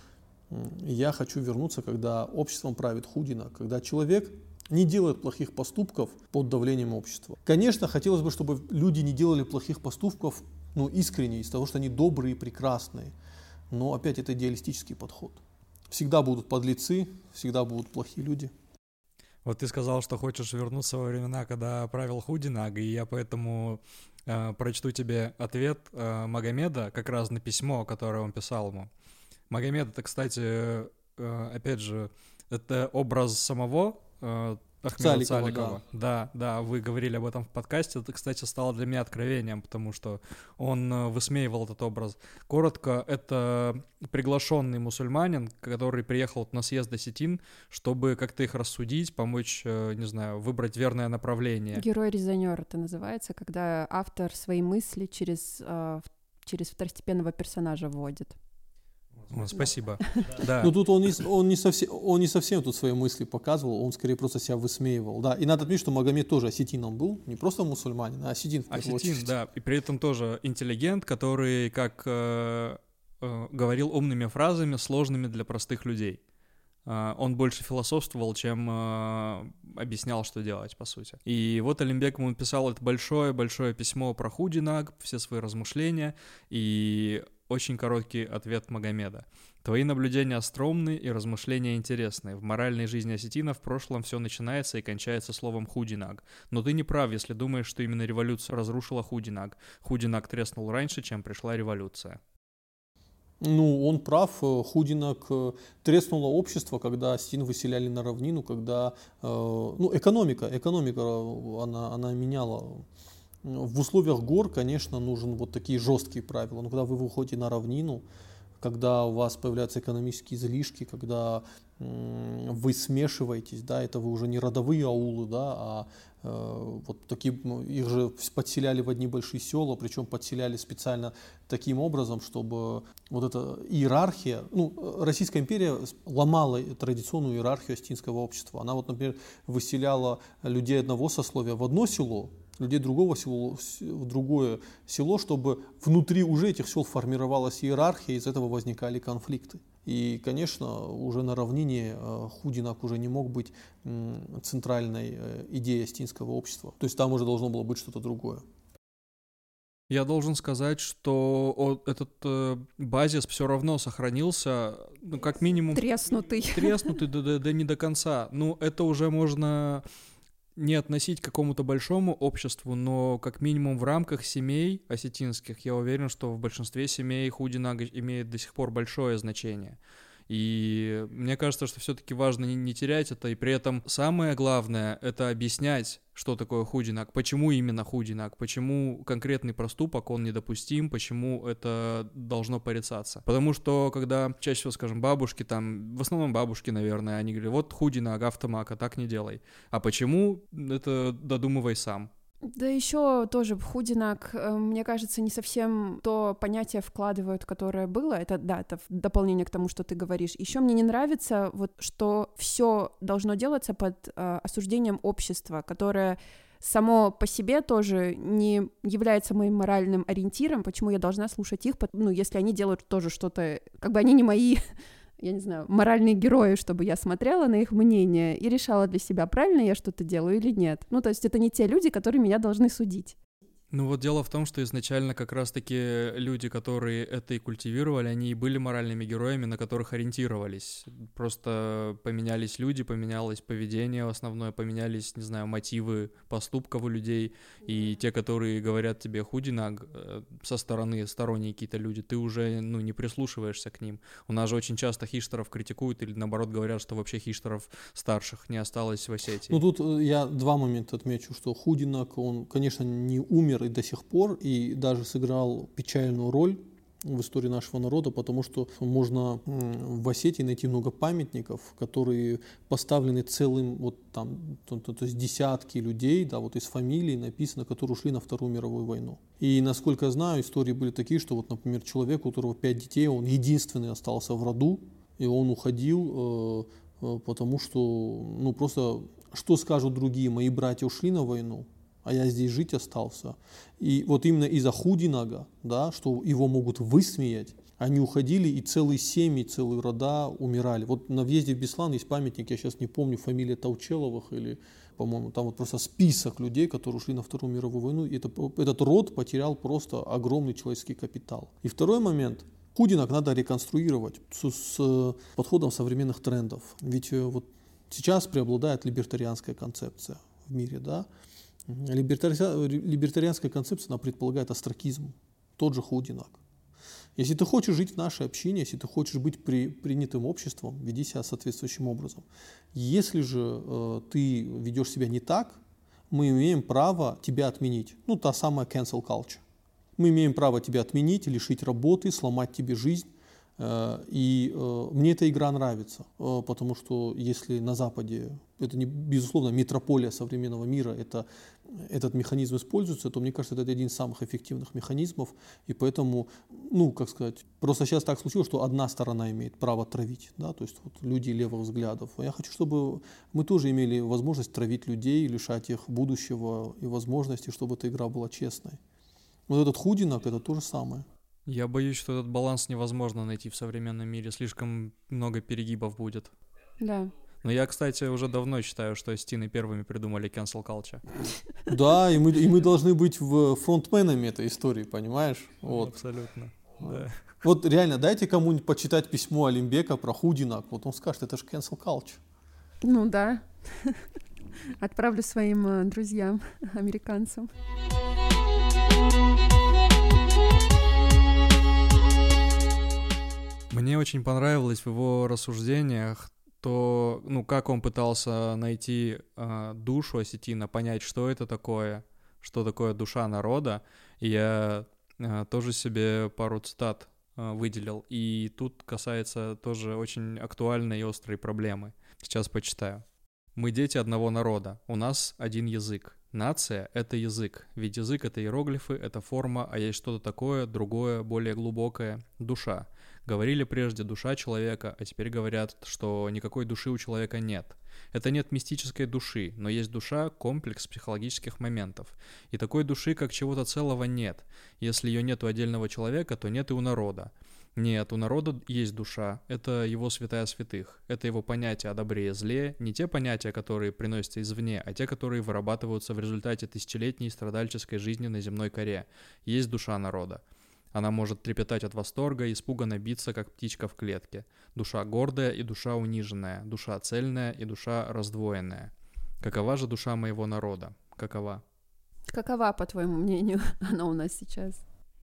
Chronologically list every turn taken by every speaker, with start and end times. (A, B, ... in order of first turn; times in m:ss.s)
0:00.5-0:13.1 A
0:13.7-0:18.5 A
0:19.4-0:28.9 B
0:29.5-0:51.8 B
0:35.0-0:35.8 A
0:51.7-0:58.4 C
0:59.3-1:00.8 B
1:00.6-1:09.3 A
1:08.7-1:16.2 B
1:16.9-1:42.2 B
1:43.4-1:52.8 A
1:53.4-1:58.0 A
1:58.6-2:38.4 A
2:39.9-2:45.9 B
2:45.7-2:47.0 C
2:46.5-2:49.8 B
2:50.6-2:59.8 B
3:00.3-3:22.1 B
3:22.5-3:44.6 C
3:45.2-3:53.2 C
3:53.7-4:19.6 B
4:19.5-5:21.1 A
5:21.7-5:26.4 A
5:27.2-5:39.4 A
5:40.0-6:08.8 A
6:09.5-6:11.1 A
6:11.5-6:16.3 B
6:16.8-6:17.1 C
6:17.4-6:21.2 B
6:21.7-6:26.0 A
6:25.7-6:27.2 B
6:26.8-6:32.2 A
6:32.8-6:34.0 C
6:34.8-6:37.5 C
6:43.7-7:03.0 B
7:03.6-7:40.4 B
7:40.9-7:51.6 B
7:52.3-7:54.8 C